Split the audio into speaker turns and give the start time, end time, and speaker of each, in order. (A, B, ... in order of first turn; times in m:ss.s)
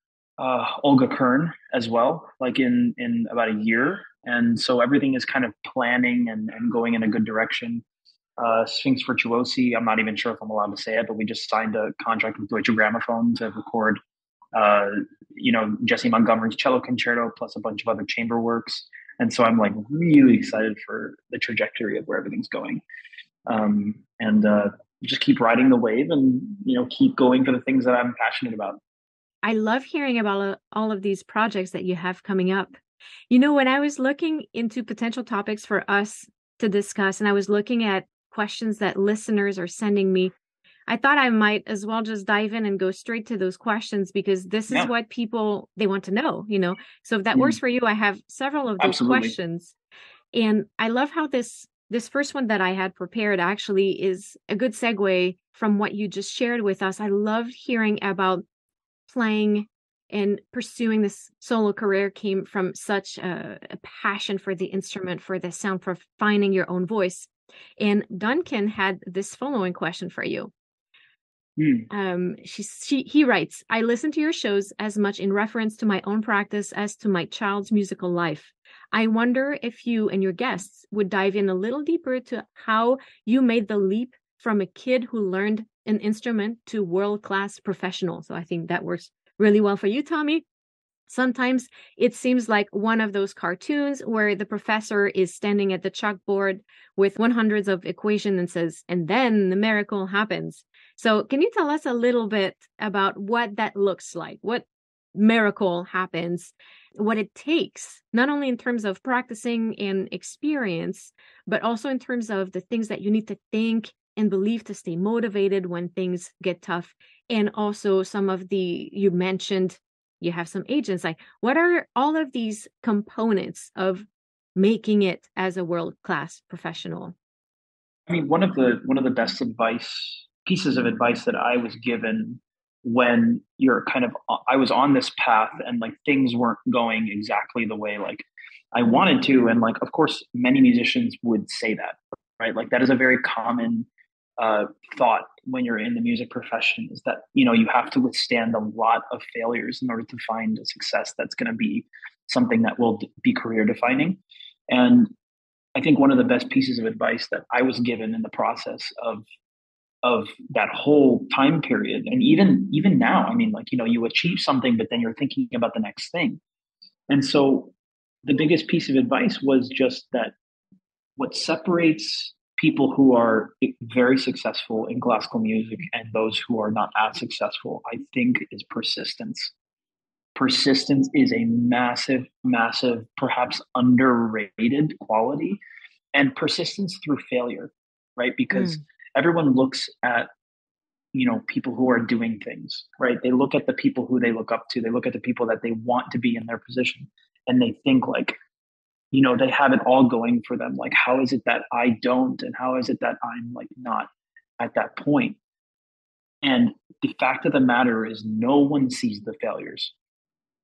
0:00.4-0:07.8 A
0:08.4-0:14.0 A
0:14.6-0:22.8 A
0:23.5-0:28.8 A
0:29.4-0:32.8 B
0:33.3-0:40.3 B
0:40.9-0:49.8 B
0:47.3-0:47.6 A
0:48.8-0:49.4 A
0:50.3-0:58.4 B
0:59.1-1:10.5 B
1:11.6-1:11.9 A
1:11.9-1:30.4 B
1:31.1-2:07.2 B
2:08.1-2:35.1 A
2:35.8-2:39.2 A
2:40.0-2:46.4 A
2:47.1-2:47.7 A
2:48.2-2:50.4 A
2:51.2-2:59.5 A
3:00.4-3:05.6 A
3:06.1-3:10.3 A
3:08.5-3:08.8 B
3:11.1-3:18.4 A
3:19.1-3:25.4 A
3:26.4-3:29.9 A